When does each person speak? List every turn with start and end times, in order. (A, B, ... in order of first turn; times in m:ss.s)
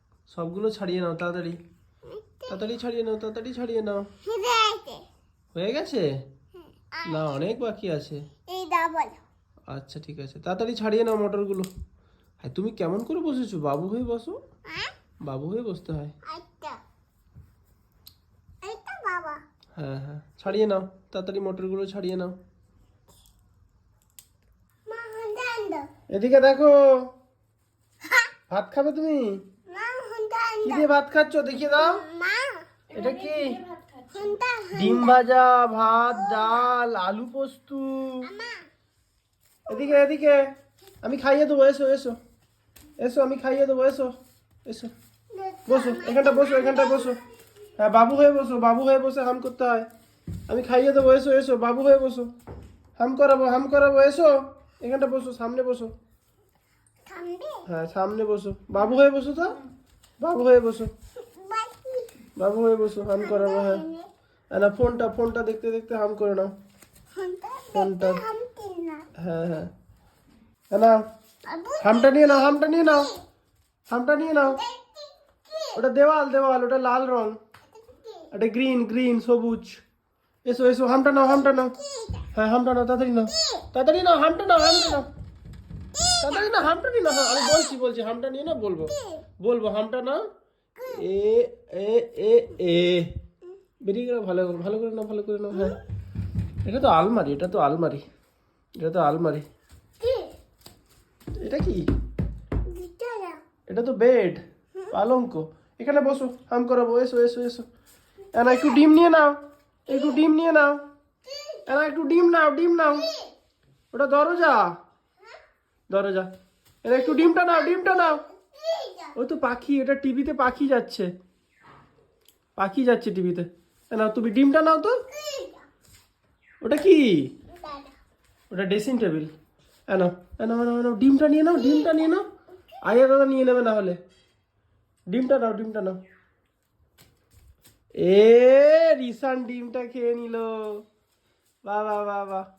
0:00.3-0:01.6 A
0:02.0-0:02.7 B
0:02.5-0:04.1 A
0:04.2-0:05.0 B
0:05.5-0:06.0 A
0:06.5-0:07.4 B
0:07.1-0:08.2 A
0:08.5-0:09.2 B
0:09.7-0:11.7 A
0:12.4-0:14.4 A
0:14.7-0:14.9 B
0:15.2-0:16.1 A
0:16.3-0:16.8 B
0:18.6-0:19.4 B
0:19.8-0:22.3 A
0:24.9-0:25.9 B
0:26.1-0:27.1 A
0:28.0-0:28.3 B
0:28.5-0:29.4 A
0:29.7-0:30.9 B
0:30.6-0:32.0 A
0:31.8-0:32.7 B
0:32.9-0:33.6 A
0:34.1-0:35.2 B
0:34.7-0:38.3 A
0:36.1-0:36.7 B
0:38.2-0:38.6 B
0:39.7-0:40.4 A
0:41.0-0:42.2 A
0:43.0-0:44.1 A
0:44.7-0:44.9 A
0:45.3-0:47.2 B
0:45.7-0:47.2 A
0:47.8-0:49.9 A
0:50.5-0:52.3 A
0:53.0-0:55.9 A
0:57.1-0:57.6 B
0:57.7-0:59.6 A
1:00.2-1:00.9 A
1:01.2-1:02.2 B
1:02.4-1:03.8 A
1:03.2-1:04.1 B
1:04.5-1:06.5 A
1:07.2-1:09.1 B
1:07.7-1:08.2 A
1:09.2-1:09.7 A
1:10.7-1:11.0 A
1:11.5-1:13.2 B
1:11.8-1:13.1 A
1:13.9-1:14.6 A
1:14.4-1:15.8 B
1:15.8-1:17.4 A
1:17.7-1:18.3 B
1:18.3-1:19.8 A
1:20.4-1:21.7 A
1:21.2-1:22.3 B
1:22.3-1:25.1 A
1:23.3-1:23.7 B
1:24.6-1:25.0 B
1:25.9-1:27.8 B
1:26.2-1:30.2 A
1:28.9-1:29.2 B
1:30.8-1:31.0 B
1:30.9-1:33.1 A
1:33.8-1:35.8 A
1:35.5-1:35.8 B
1:36.6-1:38.0 A
1:38.8-1:39.4 A
1:40.0-1:40.3 B
1:41.4-1:41.8 A
1:42.7-1:43.4 B
1:43.7-1:47.7 A
1:48.3-1:50.8 A
1:48.4-1:48.8 B
1:49.9-1:50.2 B
1:51.2-1:51.7 B
1:51.7-1:53.1 A
1:52.8-1:53.3 B
1:53.9-1:54.7 A
1:55.9-1:56.3 A
1:56.8-1:58.2 A
1:56.9-1:59.2 B
1:59.2-2:01.1 A
2:02.6-2:05.0 A
2:05.1-2:05.6 B
2:06.6-2:07.3 A
2:07.5-2:07.9 B
2:08.5-2:09.3 A
2:09.9-2:12.2 A
2:11.5-2:12.1 B
2:12.8-2:14.0 A
2:15.1-2:16.0 A
2:18.0-2:20.8 A
2:21.6-2:22.5 A